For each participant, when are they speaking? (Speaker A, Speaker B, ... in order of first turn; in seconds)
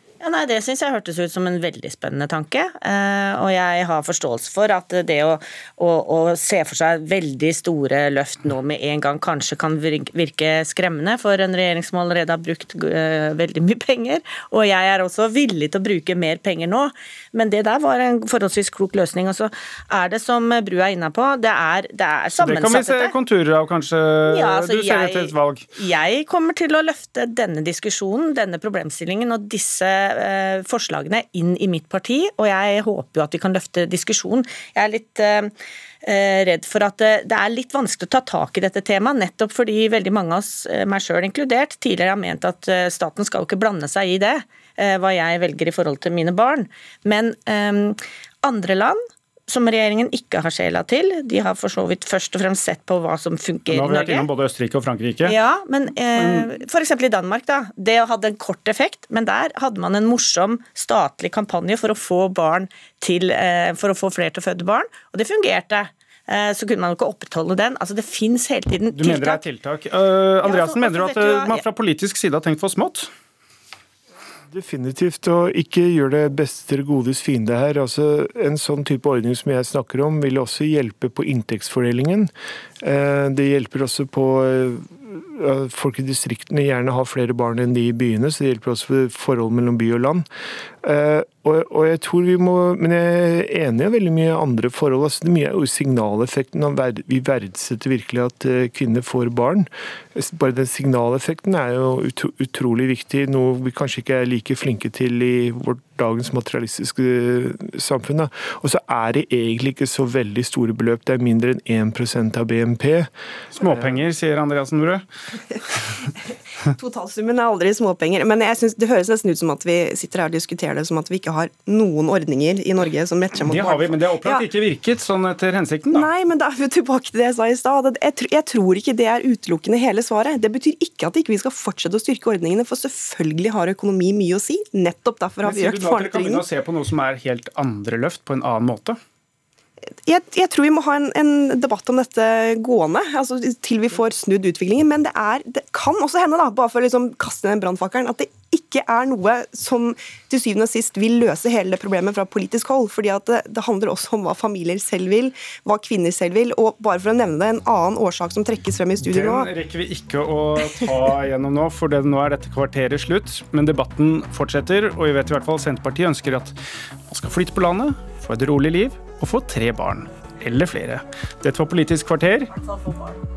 Speaker A: 0.2-23.1, 24.3-54.3, 55.2-69.4, 70.4-71.6, 172.6-173.2
Speaker B: 22.4-25.7, 53.7-55.4, 56.2-56.5, 68.9-73.1, 113.5-115.0, 123.4-126.1, 135.4-139.0, 159.0-166.6, 167.1-172.5
Speaker C: 74.5-82.3, 82.8-90.3, 90.8-114.0
Speaker D: 116.1-124.5, 125.9-136.4, 140.1-159.5